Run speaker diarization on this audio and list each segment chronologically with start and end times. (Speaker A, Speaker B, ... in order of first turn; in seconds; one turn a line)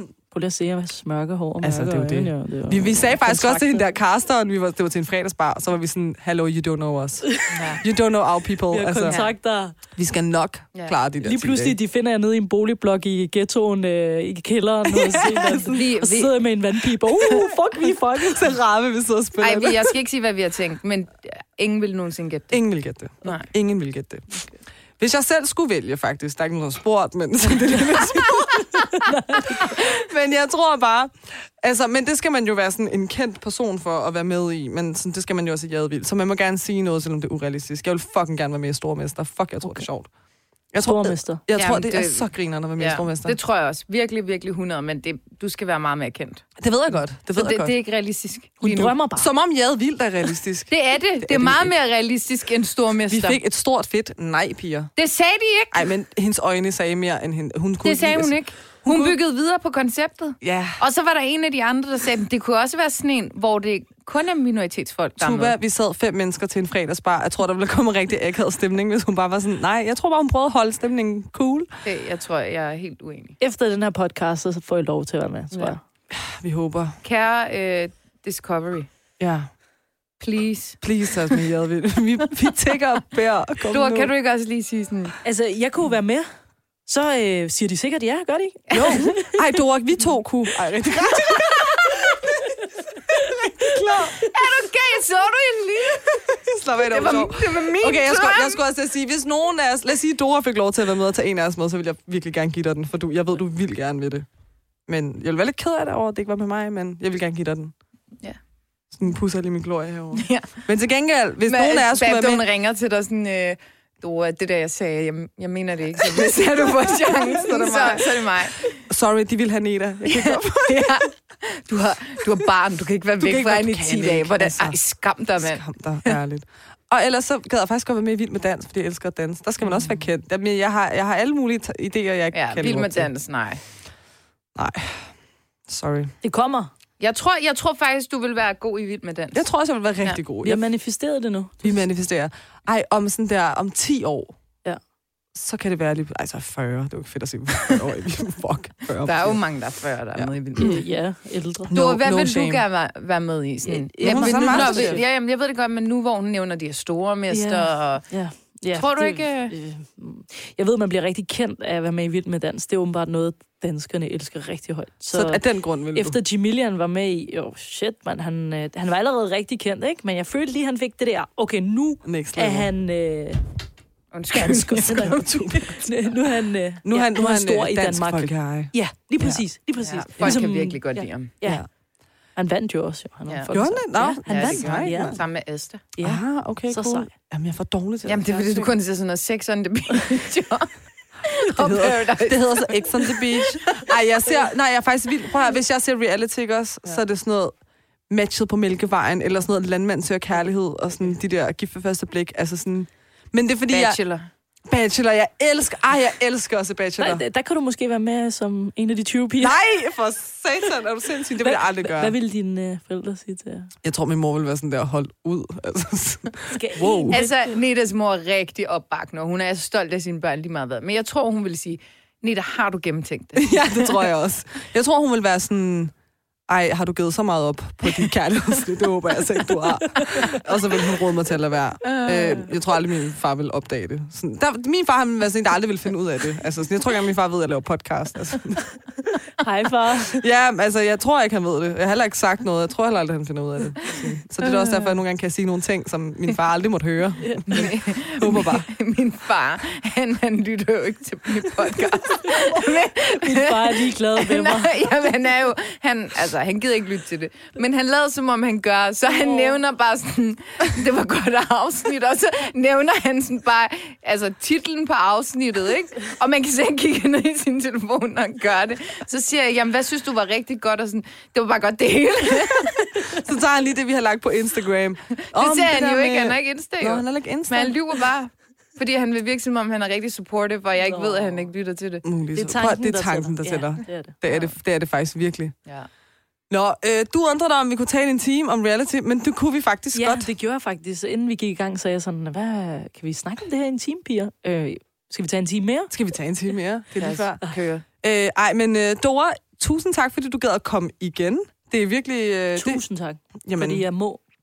Speaker A: 0.3-3.9
Speaker B: 1.6-9.2
Speaker C: 7.5-7.8
Speaker A: 8.7-9.8
Speaker C: 9.1-9.3
Speaker B: 9.9-11.8
Speaker A: 11.2-18.5
Speaker B: 14.9-15.8
Speaker C: 15.7-16.4
Speaker B: 18.2-20.0
Speaker C: 19.4-22.6
Speaker B: 22.5-24.3
Speaker B: 25.0-28.9
Speaker A: 29.0-29.7
Speaker B: 29.5-40.1
Speaker B: 40.7-43.4
Speaker A: 40.8-41.4
Speaker C: 41.5-46.5
Speaker B: 46.6-47.7
Speaker C: 47.3-48.9
Speaker A: 48.6-49.3
Speaker B: 49.1-51.7
Speaker C: 50.7-53.4
Speaker B: 53.1-54.9
Speaker C: 55.0-55.9
Speaker B: 55.7-59.2
Speaker C: 57.8-65.5
Speaker B: 60.4-60.8
Speaker B: 65.2-71.7
Speaker C: 71.8-73.4
Speaker A: 73.4-75.8
Speaker B: 76.1-77.0
Speaker C: 77.0-78.9
Speaker B: 79.2-79.5
Speaker C: 80.2-81.4
Speaker B: 80.8-84.1
Speaker C: 83.7-85.2
Speaker A: 85.2-86.3
Speaker A: 86.9-89.3
Speaker C: 88.7-89.0
Speaker B: 88.7-92.4
Speaker C: 91.3-92.1
Speaker B: 93.1-94.2
Speaker C: 94.2-96.3
Speaker B: 96.1-104.3
Speaker C: 96.8-98.6
Speaker B: 104.9-107.7
Speaker B: 108.9-112.4
Speaker C: 110.1-110.7
Speaker C: 111.5-118.8
Speaker B: 116.1-121.0
Speaker C: 120.0-125.6
Speaker B: 123.2-124.8
Speaker B: 125.4-133.1
Speaker C: 132.3-133.6
Speaker B: 134.6-135.1
Speaker B: 135.7-136.1
Speaker A: 136.2-136.7
Speaker C: 137.0-139.4
Speaker B: 139.3-140.6
Speaker A: 140.4-141.7
Speaker B: 141.6-144.3
Speaker B: 145.3-149.4
Speaker C: 149.1-150.8
Speaker B: 150.2-150.8
Speaker A: 150.6-151.7
Speaker B: 151.7-152.6
Speaker C: 151.7-158.1
Speaker A: 153.7-155.1
Speaker B: 154.0-155.0
Speaker A: 157.3-165.4
Speaker C: 158.8-159.5
Speaker B: 165.1-166.2
Speaker A: 165.9-173.4
Speaker B: 172.1-172.7
Speaker C: 174.1-175.8
Speaker A: 174.3-181.7
Speaker B: 175.1-175.6
Speaker B: 176.8-179.4
Speaker C: 179.8-181.3
Speaker A: 182.4-185.2
Speaker B: 183.5-185.2
Speaker C: 184.3-185.8
Speaker A: 186.0-187.1
Speaker B: 186.0-188.7
Speaker C: 188.0-190.7
Speaker C: 191.2-193.8
Speaker B: 191.5-197.5
Speaker B: 198.1-204.0
Speaker C: 203.7-204.3
Speaker B: 204.7-207.2
Speaker A: 207.0-209.6
Speaker B: 209.4-212.2
Speaker A: 211.4-213.7
Speaker B: 213.8-217.2
Speaker A: 216.5-217.6
Speaker C: 217.1-224.1
Speaker B: 223.4-225.9
Speaker B: 226.5-238.7
Speaker A: 229.7-230.4
Speaker C: 231.8-232.5
Speaker A: 239.4-240.2
Speaker B: 240.1-248.7
Speaker A: 247.2-247.5
Speaker C: 247.5-273.1
Speaker A: 253.1-254.8
Speaker A: 259.1-259.5
Speaker B: 273.1-277.8
Speaker C: 275.2-282.0
Speaker A: 280.8-281.5
Speaker B: 282.0-285.5
Speaker A: 282.4-284.1
Speaker C: 284.2-284.6
Speaker B: 286.5-290.3
Speaker A: 289.9-295.9
Speaker B: 295.9-302.8
Speaker C: 297.0-297.9
Speaker A: 302.6-304.2
Speaker B: 303.4-303.8